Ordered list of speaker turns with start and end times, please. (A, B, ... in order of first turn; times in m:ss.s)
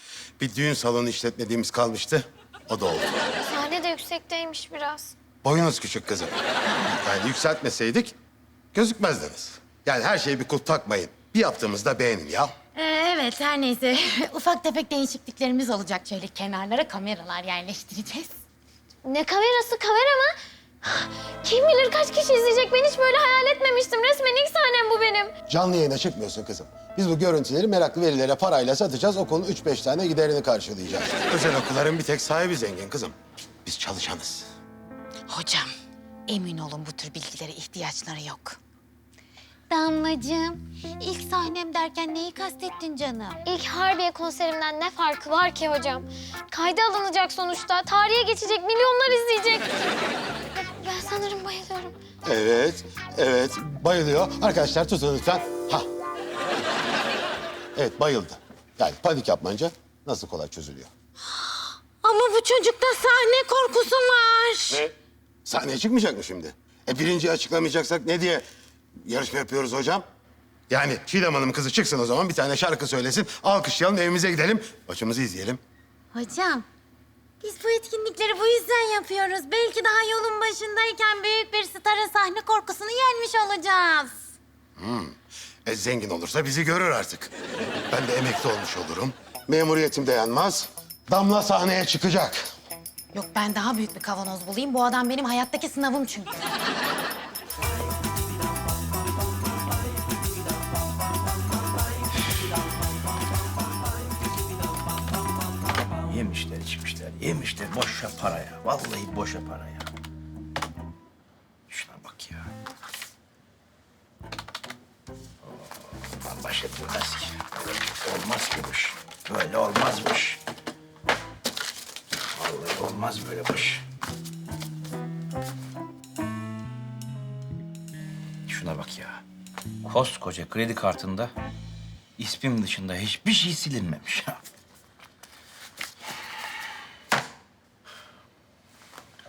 0:00.4-0:03.3 A
0:03.4-0:05.1 B
0:05.4-0:08.1 A
0:08.7-0:12.5 A
0:12.7-0:18.3 C
0:19.0-0:25.3 B
0:25.5-0:33.1 A
0:33.6-0:34.5 A
0:35.3-0:35.7 C
0:36.3-0:38.6 C
0:39.7-0:43.4 C
0:43.4-0:49.7 B
0:50.8-0:52.0 B
0:52.2-0:55.9 A
0:57.7-1:00.9 A
1:01.4-1:04.8 C
1:05.4-1:08.4 A
1:09.0-1:10.0 A
1:10.7-1:15.6 A
1:16.1-1:16.6 C
1:17.4-1:24.2 C
1:24.8-1:27.3 A
1:27.9-1:32.5 A
1:33.1-1:36.4 C
1:46.0-1:49.9 D
1:51.7-1:52.5 D
1:55.4-2:00.4 D
2:02.3-2:03.8 D
2:08.5-2:09.2 D
2:09.8-2:11.3 D
2:12.2-2:14.4 D